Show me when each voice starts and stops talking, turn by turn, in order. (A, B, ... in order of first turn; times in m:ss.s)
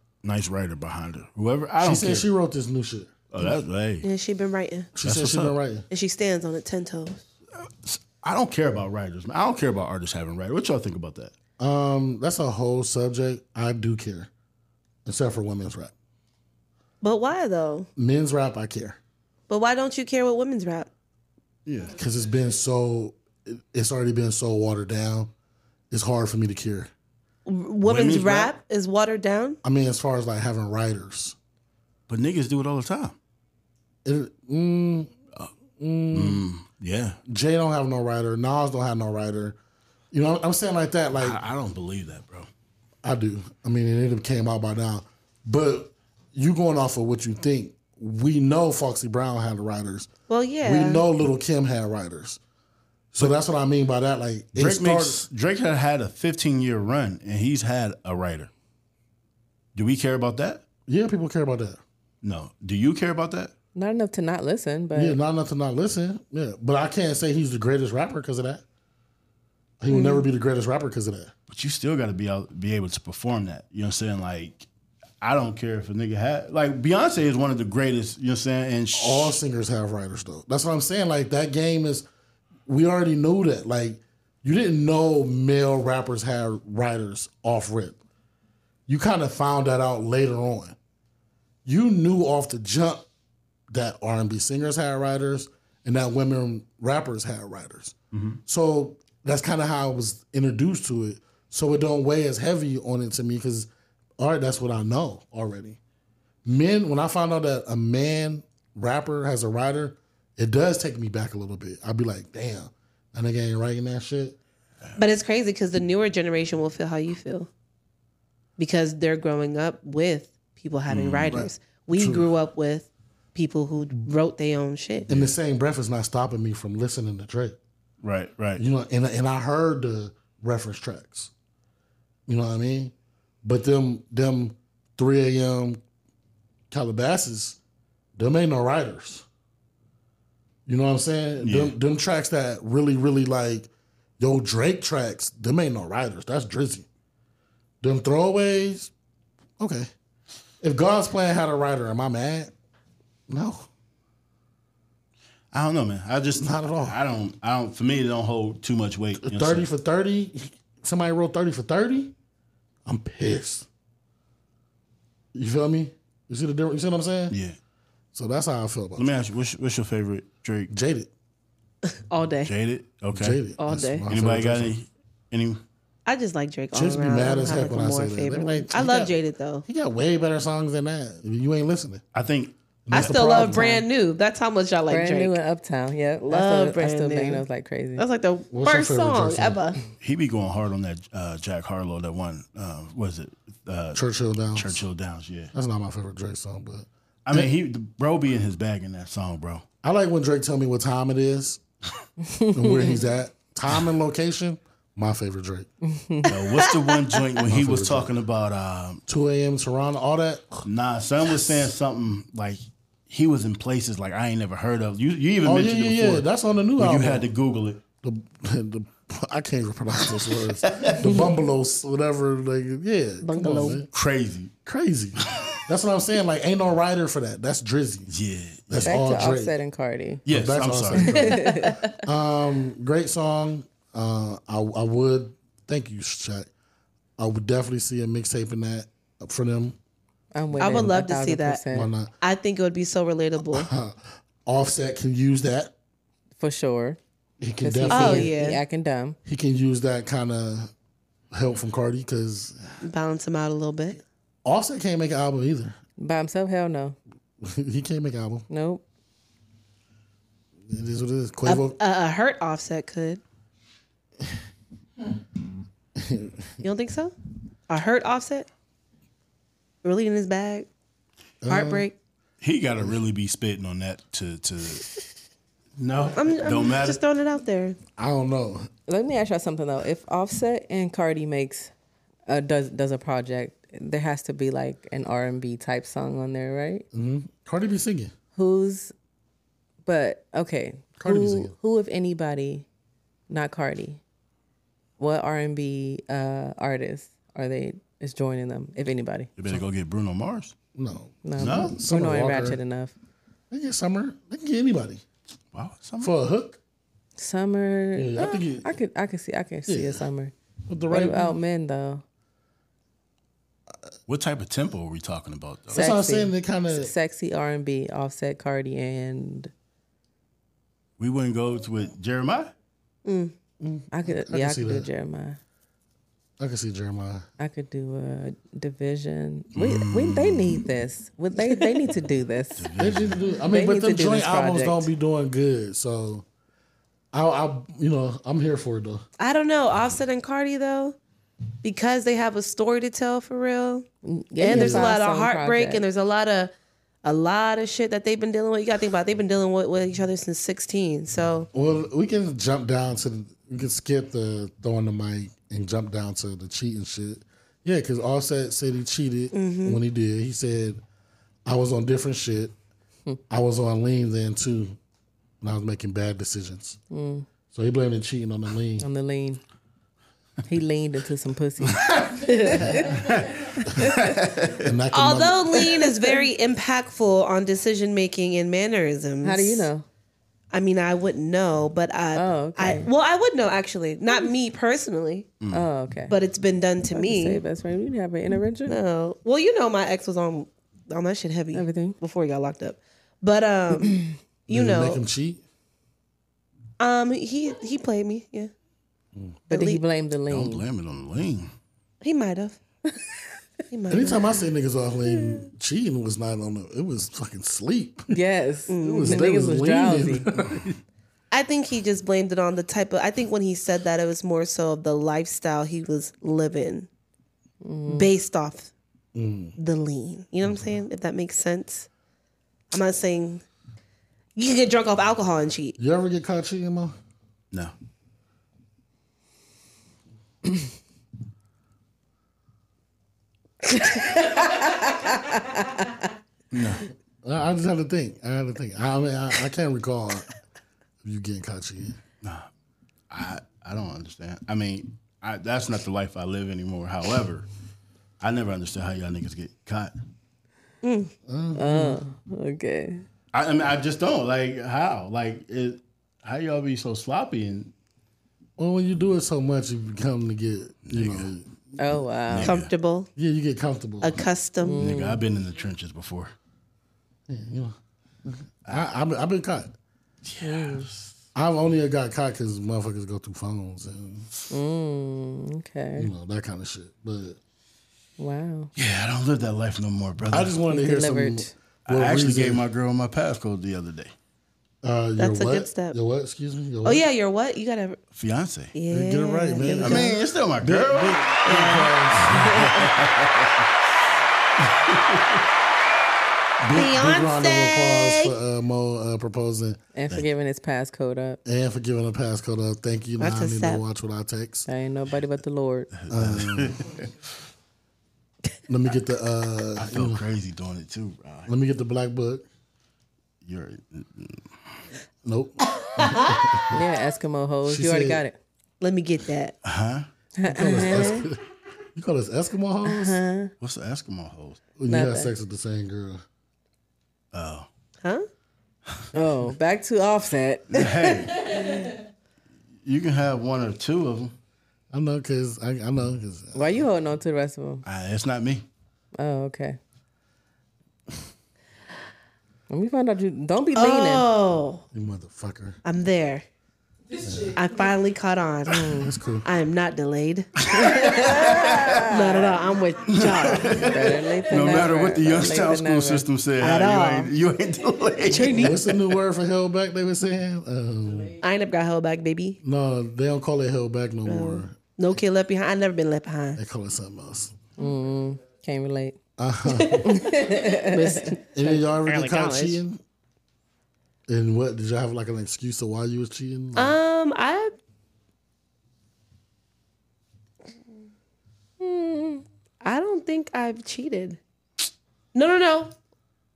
0:00.2-0:02.3 A
0:01.8-0:03.2 B
0:03.3-0:04.1 A
0:04.0-0:04.9 C
0:05.0-0:05.9 B
0:05.0-0:05.6 A
0:05.9-0:07.2 C
0:07.6-0:11.3 A
0:11.6-0:14.3 B
0:15.0-0:15.9 B
0:17.0-0:17.9 C
0:18.0-0:19.0 B
0:19.5-0:20.9 C
0:21.9-0:25.3 B
0:25.9-0:26.9 B
0:27.5-0:29.6 C
0:27.8-0:28.5 A
0:29.6-0:31.4 B
0:32.1-0:33.1 A
0:34.0-0:35.1 B
0:35.8-0:36.4 B
0:36.1-0:37.2 A
0:37.3-0:39.6 B
0:40.1-0:41.4 B
0:41.1-0:42.5 A
0:43.0-0:50.1 B
0:50.3-0:51.0 C
0:50.6-0:52.4 B
0:53.1-0:55.2 B
0:54.6-0:58.5 A
0:59.8-1:00.6 A
1:00.9-1:01.8 B
1:02.2-1:03.5 A
1:03.8-1:05.2 D
1:04.9-1:08.6 B
1:09.8-1:11.3 B
1:09.9-1:10.3 C
1:11.5-1:14.7 A
1:15.2-1:19.4 A
1:18.9-1:22.1 B
1:22.7-1:28.0 B
1:28.9-1:30.8 B
1:31.6-1:33.1 B
1:33.7-1:38.0 B
1:38.1-1:38.4 A
1:38.5-1:45.8 B
1:46.4-1:54.4 B
1:55.0-1:57.5 C
1:58.6-2:05.1 C
2:00.9-2:01.5 A
2:01.3-2:02.3 B
2:05.1-2:07.6 B
2:08.0-2:08.6 A
2:08.6-2:11.3 B
2:12.3-2:15.8 B
2:16.7-2:17.6 B
2:18.2-2:19.3 B
2:20.7-2:26.9 B
2:21.4-2:21.8 A
2:27.8-2:28.9 B
2:29.6-2:29.9 B
2:30.6-2:32.5 B
2:33.3-2:33.7 B
2:35.5-2:39.7 A
2:36.4-2:37.0 B
2:39.2-2:42.1 B
2:42.8-2:43.7 B
2:45.3-2:47.4 B
2:47.3-2:47.6 A
2:48.1-2:49.1 B
2:49.0-2:50.7 A
2:50.7-2:51.1 B
2:52.1-2:52.5 C
2:52.4-2:53.4 A
2:53.1-2:54.7 B
2:53.6-2:54.1 C
2:54.1-2:55.6 A
2:56.1-2:59.6 C
2:56.7-3:02.0 B
3:02.1-3:03.2 A
3:02.9-3:03.7 B
3:02.9-3:05.4 C
3:03.3-3:03.8 D
3:04.9-3:08.0 D
3:06.3-3:07.4 C
3:08.0-3:09.8 C
3:08.5-3:09.6 B
3:10.0-3:14.0 A
3:13.9-3:14.8 B
3:14.5-3:15.5 A
3:15.5-3:17.5 B
3:17.3-3:19.6 A
3:19.8-3:21.6 B
3:22.2-3:23.0 D
3:22.6-3:25.7 B
3:25.8-3:26.3 D
3:26.3-3:27.0 C
3:26.3-3:29.0 A
3:27.5-3:28.1 B
3:29.1-3:30.7 B
3:30.6-3:36.3 A
3:31.4-3:31.7 B
3:35.4-3:37.3 B
3:36.8-3:37.8 A
3:38.0-3:43.9 B
3:40.6-3:41.0 A
3:43.2-3:43.8 C
3:43.9-3:44.5 A
3:44.6-3:48.1 B
3:45.3-3:45.6 A
3:48.1-3:49.0 A
3:48.7-3:49.6 B
3:48.9-3:50.2 D
3:50.3-3:51.2 A
3:50.3-3:56.5 B
3:51.2-3:51.8 D
3:51.3-3:52.0 C
3:57.2-3:59.8 B
4:00.3-4:01.9 D
4:00.6-4:01.6 C
4:01.7-4:02.1 B
4:02.2-4:03.7 C
4:03.5-4:05.7 B
4:06.4-4:07.0 D
4:07.4-4:08.3 B
4:07.6-4:09.2 D
4:07.9-4:08.6 C
4:09.2-4:10.7 B
4:11.3-4:12.6 B
4:12.8-4:14.0 C
4:14.4-4:15.8 B
4:16.0-4:17.0 D
4:17.4-4:18.5 B
4:18.5-4:18.8 D
4:20.7-4:21.8 B
4:21.4-4:23.2 C
4:26.0-4:26.6 B
4:26.6-4:27.1 C
4:27.7-4:28.5 C
4:29.8-4:30.7 C
4:31.4-4:31.9 B
4:31.5-4:32.0 C
4:32.4-4:35.1 A
4:35.8-4:37.0 A
4:36.1-4:37.8 C
4:38.0-4:38.7 B
4:38.9-4:41.7 D
4:42.3-4:46.8 D
4:46.9-4:48.1 B
4:48.4-4:48.9 D
4:49.9-4:52.6 D
4:51.0-4:51.5 B
4:53.3-4:54.0 D
4:55.0-4:59.3 D
4:59.4-5:00.5 A
5:00.8-5:02.6 B
5:01.2-5:02.9 D
5:01.4-5:01.8 A
5:03.5-5:05.0 B
5:05.5-5:06.1 A
5:06.0-5:06.6 B
5:07.2-5:10.3 D
5:08.0-5:08.7 B
5:09.7-5:10.0 B
5:10.7-5:11.4 B
5:10.9-5:12.0 D
5:14.1-5:15.8 A
5:15.7-5:16.9 B
5:15.8-5:19.5 D
5:21.0-5:22.5 A
5:23.0-5:23.3 C
5:23.6-5:24.9 B
5:23.9-5:25.4 D
5:26.4-5:27.3 B
5:27.4-5:32.7 D
5:29.6-5:30.6 A
5:32.6-5:33.2 A
5:32.8-5:36.2 B
5:33.5-5:34.9 D
5:37.1-5:39.0 B
5:39.2-5:41.0 C
5:41.6-5:43.9 C
5:44.0-5:45.8 D
5:44.4-5:46.5 C
5:44.5-5:44.9 B
5:47.0-5:51.5 C
5:51.5-6:00.8 B
5:59.3-5:59.8 C
6:01.5-6:02.5 B
6:03.3-6:04.8 B
6:05.4-6:06.8 B
6:06.9-6:07.3 D
6:07.5-6:08.9 B
6:08.8-6:09.4 D
6:10.5-6:12.9 D
6:13.8-6:14.0 D
6:13.8-6:14.7 A
6:14.6-6:15.7 B
6:14.9-6:19.7 C
6:19.2-6:19.8 D
6:20.5-6:25.3 C
6:22.1-6:22.9 D
6:25.4-6:25.7 A
6:25.5-6:26.1 D
6:26.1-6:27.4 C
6:27.0-6:28.8 D
6:28.7-6:35.0 C
6:31.5-6:32.0 D
6:34.5-6:35.4 B
6:36.8-6:38.5 C
6:39.5-6:39.8 C
6:39.5-6:40.6 D
6:40.3-6:41.5 A
6:42.0-6:42.6 C
6:43.7-6:44.4 C
6:43.9-6:48.1 B
6:48.1-6:50.3 D
6:48.7-6:49.2 C
6:48.8-6:50.8 B
6:51.3-6:56.9 C
6:57.6-6:58.1 D
6:57.9-6:58.7 C
6:59.1-6:59.6 B
6:59.6-7:01.9 C
7:02.7-7:03.4 C
7:04.4-7:05.8 C
7:05.8-7:07.0 B
7:13.8-7:15.8 D
7:16.5-7:16.9 A
7:17.2-7:20.3 B
7:21.0-7:22.0 B
7:22.2-7:22.5 A
7:23.1-7:27.5 A
7:28.2-7:29.9 A
7:30.8-7:31.1 C
7:31.3-7:32.0 B
7:31.6-7:33.0 D
7:33.3-7:37.7 A
7:38.6-7:41.5 B
7:40.9-7:41.3 A
7:41.8-7:42.5 D
7:42.3-7:42.7 A
7:42.4-7:43.1 C
7:43.2-7:44.2 B
7:44.0-7:44.8 C
7:44.6-7:45.2 D
7:44.8-7:46.3 A
7:47.3-7:47.8 B
7:48.3-7:49.7 B
7:50.2-7:51.1 A
7:50.4-7:50.9 D
7:51.4-7:54.3 B
7:54.5-7:56.1 D
7:56.0-7:57.4 B
7:58.2-7:58.7 D
7:58.8-8:00.5 A
8:00.3-8:02.6 B
8:00.7-8:01.5 D
8:01.9-8:04.1 A
8:04.8-8:07.0 B
8:05.2-8:06.0 C
8:06.8-8:08.0 C
8:08.1-8:08.7 A
8:08.7-8:10.2 C
8:08.9-8:12.6 B
8:09.7-8:11.2 A
8:11.4-8:11.9 C
8:12.3-8:13.6 A
8:14.7-8:15.4 A
8:16.6-8:19.8 B
8:16.7-8:18.3 C
8:20.0-8:21.4 D
8:21.4-8:24.7 B
8:23.2-8:23.8 C
8:24.7-8:25.9 D
8:26.0-8:27.1 A
8:26.1-8:26.8 B
8:28.7-8:30.2 B
8:29.8-8:31.5 A
8:31.5-8:32.4 B
8:33.4-8:34.4 A
8:35.2-8:36.8 B
8:35.8-8:36.5 C
8:36.7-8:38.4 D
8:37.7-8:38.2 B
8:38.8-8:39.6 C
8:39.6-8:40.1 A
8:40.4-8:41.3 D
8:40.4-8:41.4 B
8:42.0-8:43.2 B
8:42.9-8:43.5 D
8:43.6-8:44.6 A
8:44.8-8:46.2 B
8:44.9-8:45.3 D
8:47.3-8:47.7 A
8:49.1-8:51.2 D
8:50.7-8:51.5 A
8:52.8-8:54.3 A
8:54.9-8:56.8 B
8:56.6-8:57.8 D
8:57.8-8:58.6 A
8:59.2-8:59.8 D
9:02.7-9:04.3 D
9:03.8-9:04.8 C
9:04.9-9:05.8 B
9:05.8-9:06.4 C
9:07.2-9:07.6 B
9:07.5-9:08.9 C
9:08.7-9:09.1 D
9:09.0-9:09.5 B
9:09.4-9:13.9 C
9:10.8-9:11.9 A
9:10.9-9:12.6 D
9:13.1-9:18.8 A
9:13.7-9:16.2 D
9:16.6-9:17.3 C
9:18.3-9:18.8 C
9:18.5-9:21.4 B
9:21.4-9:22.6 C
9:22.6-9:24.8 B
9:24.3-9:26.6 C
9:26.6-9:27.6 B
9:27.8-9:29.2 D
9:29.4-9:30.2 B
9:29.7-9:32.8 C
9:30.1-9:31.3 D
9:31.5-9:33.0 B
9:34.3-9:37.0 B
9:36.8-9:37.7 C
9:41.8-9:42.4 D
9:42.8-9:44.4 C
9:45.3-9:45.9 C